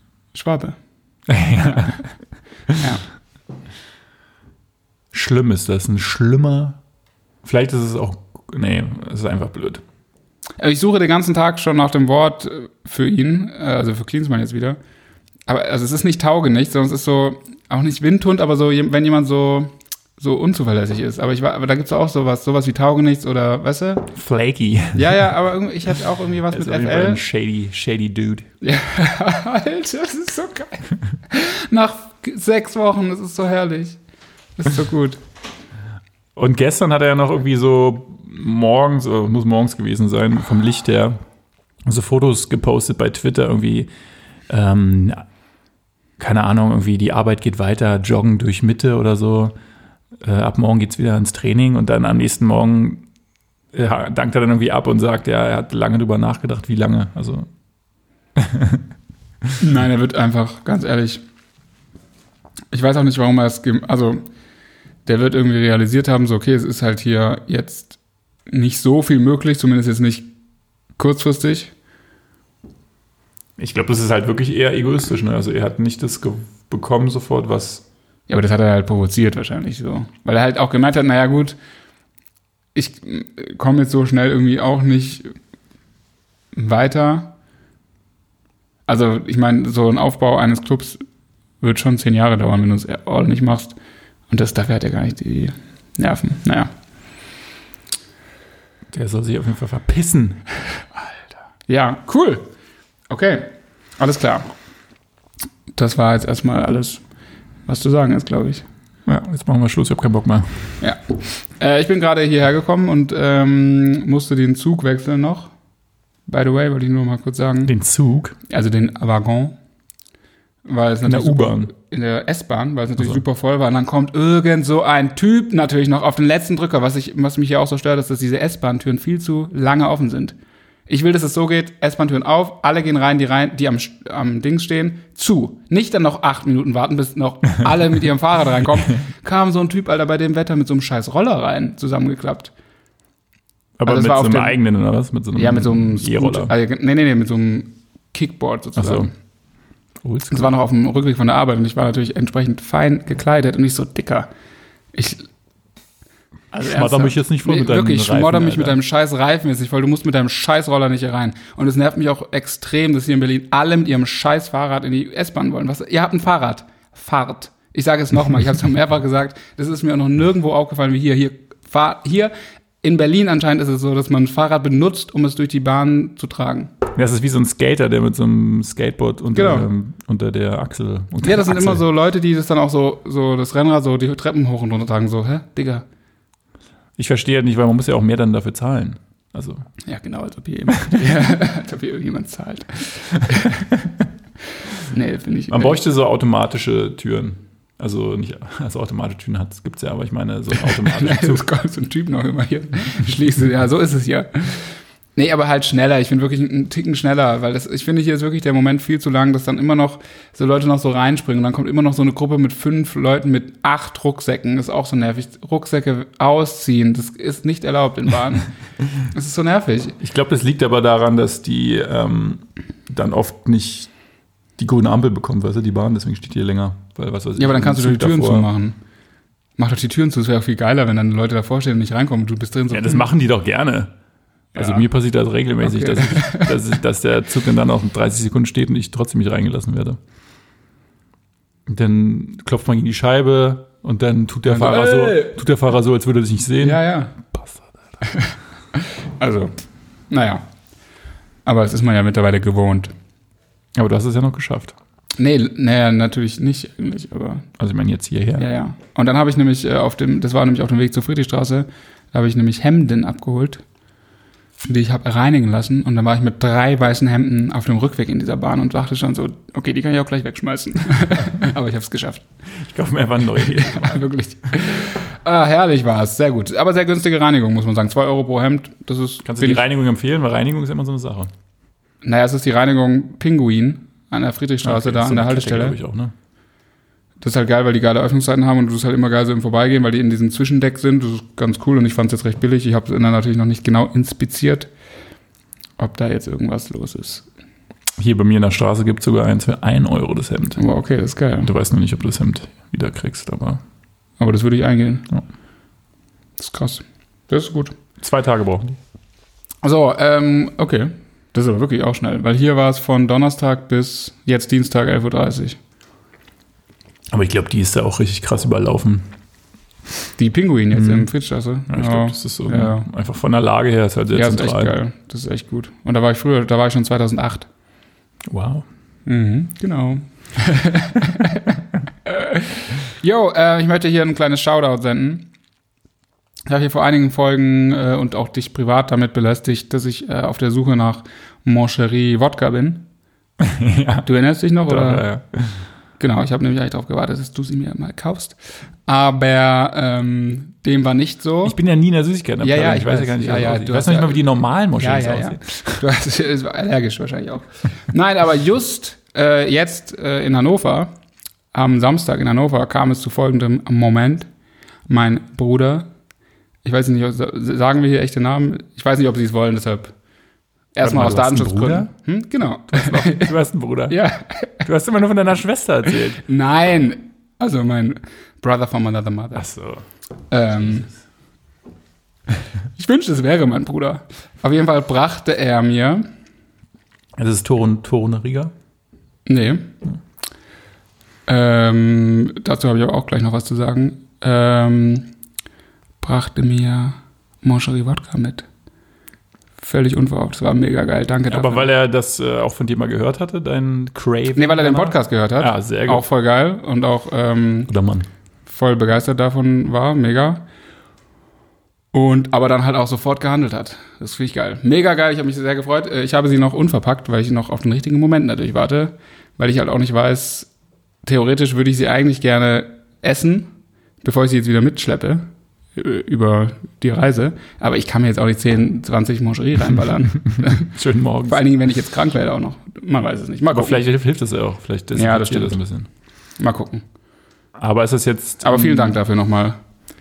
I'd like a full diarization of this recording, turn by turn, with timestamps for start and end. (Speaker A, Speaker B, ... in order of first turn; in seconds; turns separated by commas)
Speaker A: 0.3-0.8, Speaker B: 1.3-2.0, Speaker A: 2.8-3.0, Speaker B: 5.1-6.8, Speaker B: 7.4-9.8, Speaker A: 10.6-14.8, Speaker A: 15.5-24.1, Speaker B: 24.1-25.2, Speaker A: 24.9-27.2, Speaker B: 26.5-28.5, Speaker A: 28.6-34.0, Speaker A: 34.6-35.2, Speaker B: 36.4-41.2, Speaker B: 41.9-43.9, Speaker B: 44.5-45.2, Speaker B: 46.2-49.5, Speaker B: 50.2-53.0, Speaker B: 53.7-57.5, Speaker B: 58.4-58.8, Speaker A: 59.6-61.2, Speaker A: 62.7-64.2, Speaker A: 65.0-68.0, Speaker A: 68.5-70.3, Speaker A: 71.0-71.7, Speaker B: 73.6-77.8, Speaker A: 78.3-81.5, Speaker A: 82.7-85.3, Speaker A: 86.5-87.3, Speaker A: 88.9-91.0, Speaker A: 91.6-93.8, Speaker A: 94.3-96.7, Speaker B: 98.9-100.4, Speaker A: 101.7-102.5, Speaker A: 103.1-104.5, Speaker A: 105.7-107.0, Speaker A: 107.7-108.6, Speaker B: 109.0-110.7, Speaker A: 110.8-115.5, Speaker A: 116.3-117.7, Speaker B: 117.7-118.3, Speaker A: 118.5-119.6, Speaker A: 120.6-130.3, Speaker B: 121.0-121.7, Speaker A: 130.9-142.5, Speaker B: 143.8-146.5, Speaker A: 143.8-144.6, Speaker A: 145.3-149.1, Speaker B: 148.8-149.1, Speaker B: 150.0-150.5, Speaker A: 150.3-154.3, Speaker A: 154.9-155.3, Speaker A: 156.5-176.7, Speaker B: 156.6-158.8, Speaker B: 176.9-181.8, Speaker A: 179.3-179.7, Speaker A: 181.2-185.8, Speaker B: 187.0-189.7, Speaker A: 189.8-193.8, Speaker A: 194.9-195.8, Speaker B: 195.5-201.4, Speaker A: 200.5-218.5, Speaker A: 219.1-219.9, Speaker B: 220.0-223.9, Speaker B: 224.6-228.5, Speaker A: 227.4-228.8, Speaker A: 229.6-233.1, Speaker B: 232.7-233.9, Speaker A: 234.5-234.8, Speaker B: 234.5-240.0, Speaker A: 235.6-236.5, Speaker B: 241.7-247.7, Speaker A: 244.4-245.4, Speaker A: 246.6-247.2, Speaker A: 248.0-249.5, Speaker A: 250.1-250.4, Speaker A: 251.4-252.9, Speaker B: 253.7-254.7, Speaker A: 255.2-257.5, Speaker B: 257.6-258.5, Speaker A: 258.4-263.6, Speaker A: 264.6-272.2, Speaker B: 272.6-274.0, Speaker A: 273.4-279.6, Speaker B: 279.2-281.3, Speaker A: 282.0-285.8, Speaker B: 284.6-286.1, Speaker A: 287.2-294.7, Speaker A: 295.8-297.3, Speaker B: 298.0-300.6, Speaker A: 300.6-301.5, Speaker B: 301.4-303.6, Speaker A: 304.2-305.1, Speaker A: 306.4-307.7, Speaker B: 308.0-308.8, Speaker A: 309.6-315.6, Speaker B: 317.1-319.1, Speaker A: 320.2-322.9, Speaker B: 320.7-321.1, Speaker B: 321.7-324.8, Speaker A: 324.1-327.5, Speaker B: 328.3-328.6, Speaker A: 329.1-335.3, Speaker A: 336.5-342.9, Speaker B: 343.4-344.1, Speaker A: 344.0-345.1, Speaker B: 344.6-345.6, Speaker A: 346.0-351.6, Speaker B: 351.4-355.8, Speaker A: 352.4-360.9, Speaker A: 361.5-364.3, Speaker A: 364.9-365.9, Speaker A: 366.6-369.9, Speaker A: 370.7-373.3, Speaker B: 370.8-371.9, Speaker B: 372.7-374.0, Speaker A: 373.9-374.6, Speaker B: 374.6-376.2, Speaker A: 376.1-379.4, Speaker B: 379.3-379.8, Speaker A: 380.3-380.9, Speaker B: 380.5-380.9, Speaker A: 382.8-386.0, Speaker B: 387.1-388.5, Speaker A: 389.2-389.7, Speaker A: 391.3-395.1, Speaker A: 396.0-398.4, Speaker A: 399.6-401.7, Speaker B: 401.3-406.0, Speaker A: 404.4-407.7, Speaker B: 407.7-408.1, Speaker A: 408.5-410.4, Speaker A: 411.9-420.5, Speaker A: 421.0-430.7, Speaker B: 430.4-431.4, Speaker A: 431.3-433.8, Speaker B: 433.5-435.9, Speaker A: 434.9-435.6, Speaker A: 436.4-436.8, Speaker B: 437.6-439.0, Speaker A: 438.4-439.6